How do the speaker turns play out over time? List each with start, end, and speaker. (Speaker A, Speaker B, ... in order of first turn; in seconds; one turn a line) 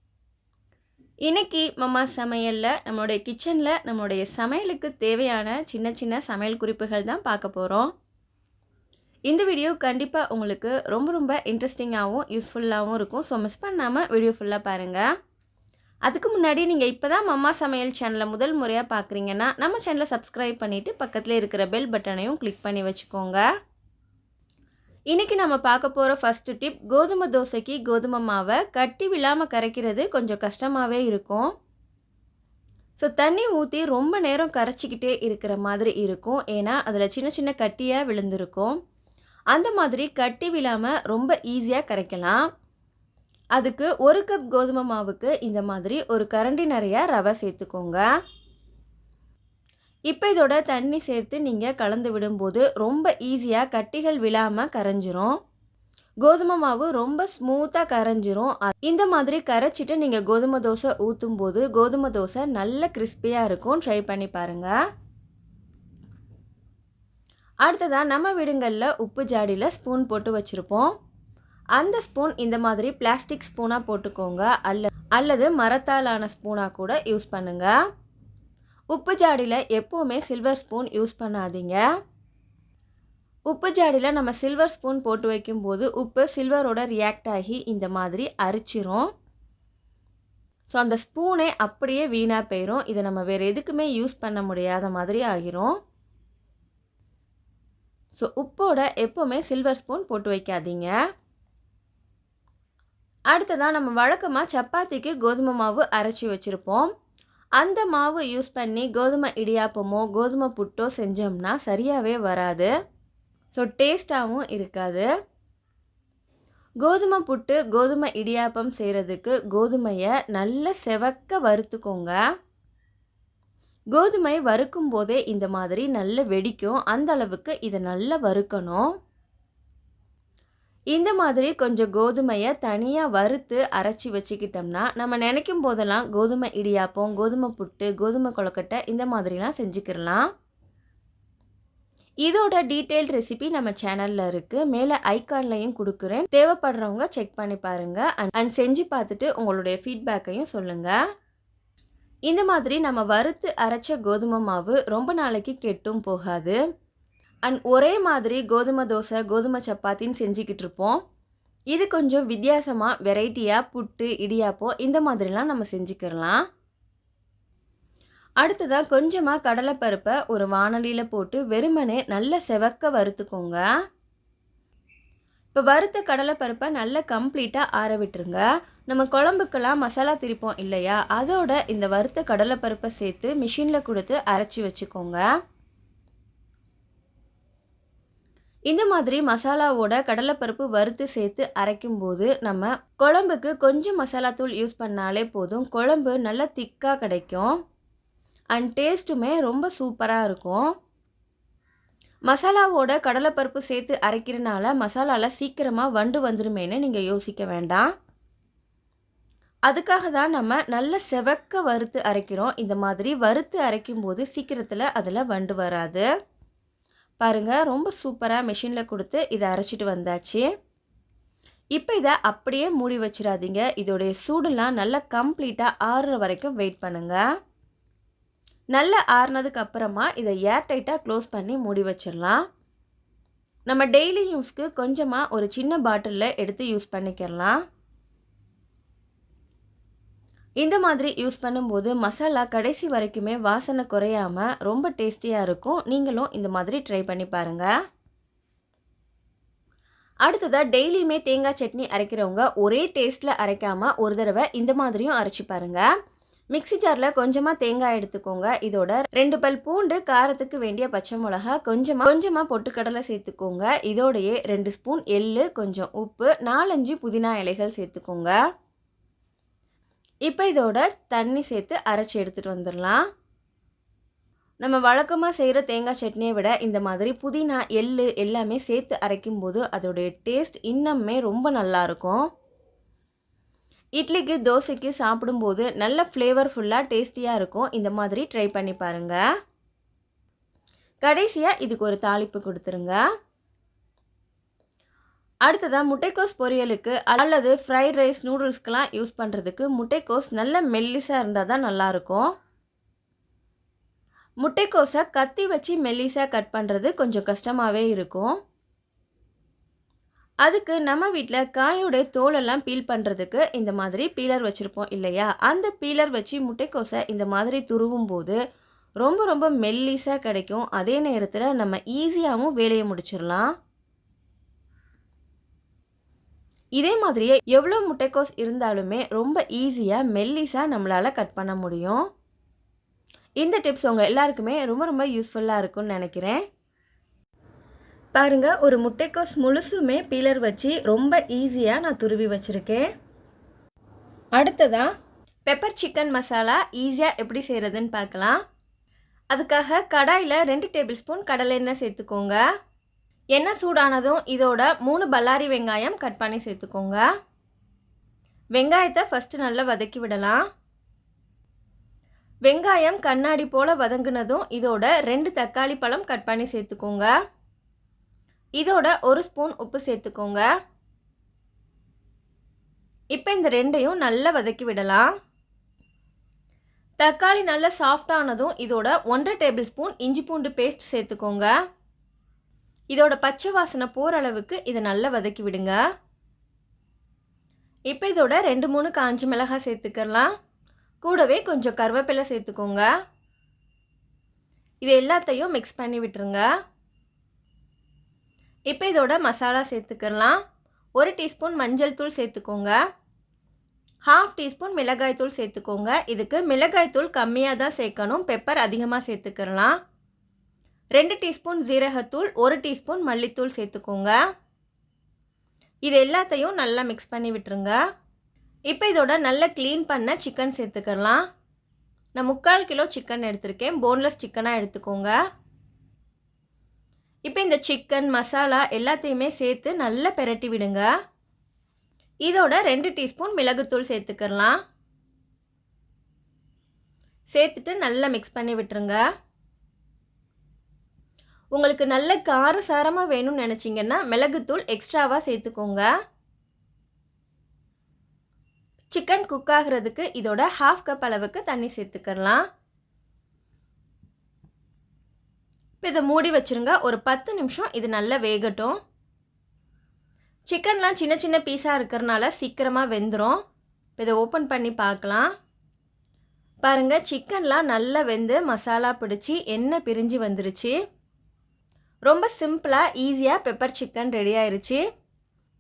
Speaker A: 1.2-7.9
Speaker A: 9.3-15.1
Speaker A: 16.1-23.4
Speaker A: 25.1-31.5
Speaker A: 33.0-38.8
Speaker A: 39.5-42.4
Speaker A: 43.6-48.0
Speaker A: 50.1-55.4
Speaker A: 56.2-64.8
Speaker A: 67.6-70.9
Speaker A: 71.8-77.7
Speaker A: 78.9-81.8
Speaker A: 83.5-89.1
Speaker A: 90.7-95.7
Speaker A: 98.2-100.9
Speaker A: 103.3-106.9
Speaker A: 107.6-112.7
Speaker A: 113.5-115.1
Speaker A: 116.8-122.2
Speaker A: 123.9-128.8
Speaker A: 130.9-140.2
Speaker A: 142.2-151.0
Speaker A: 152.3-156.6
Speaker A: 157.5-161.0
Speaker A: 161.7-166.4
Speaker A: 168.4-173.6
Speaker A: 175.5-185.2
Speaker A: 188.7-197.5
Speaker A: 198.5-200.6
Speaker A: 202.3-207.9
Speaker A: 209.7-216.1
Speaker A: 217.2-220.4
Speaker A: 221.8-227.2
Speaker A: 228.7-232.4
Speaker A: 233.7-237.6
Speaker A: 240.6-247.7
Speaker A: 250.2-255.8
Speaker A: 256.5-268.4
Speaker A: 270.3-273.0
Speaker A: 274.6-282.2
Speaker A: 284.0-289.2
Speaker A: 291.0-293.0
Speaker A: 295.5-302.3
Speaker A: 304.4-308.4
Speaker A: 310.4-318.4
Speaker A: 319.0-323.5
Speaker A: 326.8-332.0
Speaker A: 333.4-336.4
Speaker A: 338.1-342.9
Speaker A: 344.4-344.9
Speaker A: 345.5-348.4
Speaker A: 349.3-352.4
Speaker A: 353.3-357.0
Speaker A: 358.6-360.4
Speaker A: 362.5-367.1
Speaker A: 368.6-370.4
Speaker A: 373.1-375.1
Speaker A: 377.0-381.5
Speaker A: 382.9-385.8
Speaker A: 387.9-390.3
Speaker A: 391.0-392.9
Speaker A: 394.8-396.5
Speaker A: 398.7-400.4
Speaker A: 401.0-402.8
Speaker A: 404.1-409.8
Speaker A: 410.9-414.2
Speaker A: 415.9-417.8
Speaker A: 418.7-421.2
Speaker A: 422.2-425.2
Speaker A: 427.3-430.9
Speaker A: 432.2-434.6
Speaker A: 437.3-439.0
Speaker A: 441.5-445.9
Speaker A: 448.9-452.4
Speaker A: 455.8-458.8
Speaker A: 460.5-463.4
Speaker A: 464.0-465.3
Speaker A: 466.6-470.8
Speaker A: 472.1-474.8